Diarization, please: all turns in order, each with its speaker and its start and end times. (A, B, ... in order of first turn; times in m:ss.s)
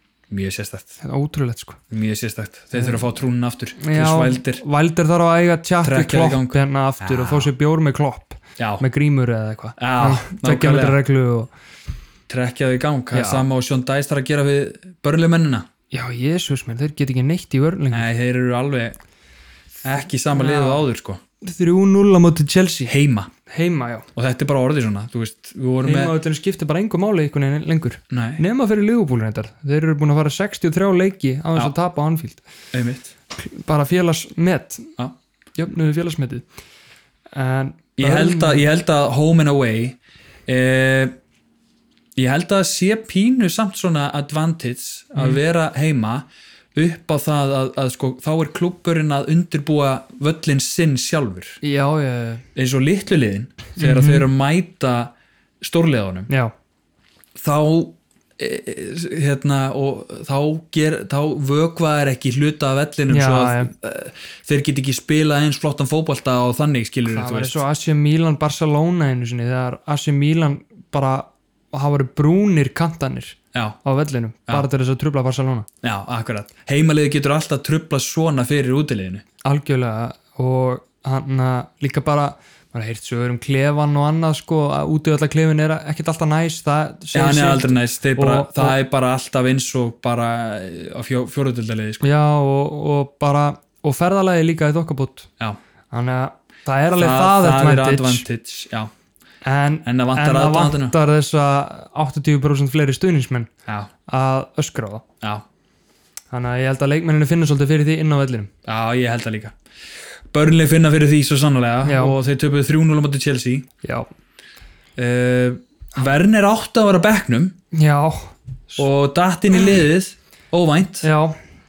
0:00.3-0:01.0 A
0:01.0-0:01.8 B
0:01.9-0:04.6 A
0:03.8-0:11.5 B
0:05.8-0:07.5 A
0:08.6-0:08.8 A
0:09.8-0:11.0 A
0:12.3-0:15.7 A
0:13.1-0:13.4 B
0:15.9-0:18.1 B
0:17.9-0:19.0 A
0:19.8-0:21.2 A
0:20.3-0:20.8 B
0:21.4-0:22.9 B
0:22.9-0:23.3 A
0:23.5-0:24.1 B
0:24.1-0:26.1 A
0:25.8-0:32.4 B
0:28.1-0:28.4 A
0:32.7-0:33.1 A
0:33.4-0:34.9 B
0:35.6-0:36.4 B
0:37.3-0:38.6 B
0:38.0-0:41.1 A
0:42.2-0:51.6 A
0:51.6-0:52.4 B
0:52.5-0:56.3 A
0:53.8-0:54.3 B
0:57.4-1:07.6 A
1:03.1-1:03.7 B
1:07.1-1:15.7 B
1:13.5-1:13.8 A
1:15.8-1:19.2 A
1:19.4-1:28.8 B
1:27.1-1:32.0 A
1:32.0-1:35.3 B
1:35.9-1:38.2 B
1:36.9-1:38.9 A
1:39.4-1:43.5 B
1:39.8-1:41.0 A
1:44.1-1:45.0 B
1:46.3-1:48.5 B
1:48.6-1:49.5 A
1:50.3-1:53.7 A
1:51.8-1:52.2 B
1:53.8-1:54.1 B
1:55.0-1:57.5 A
1:57.7-1:58.8 B
1:58.8-2:01.1 A
2:01.0-2:01.4 B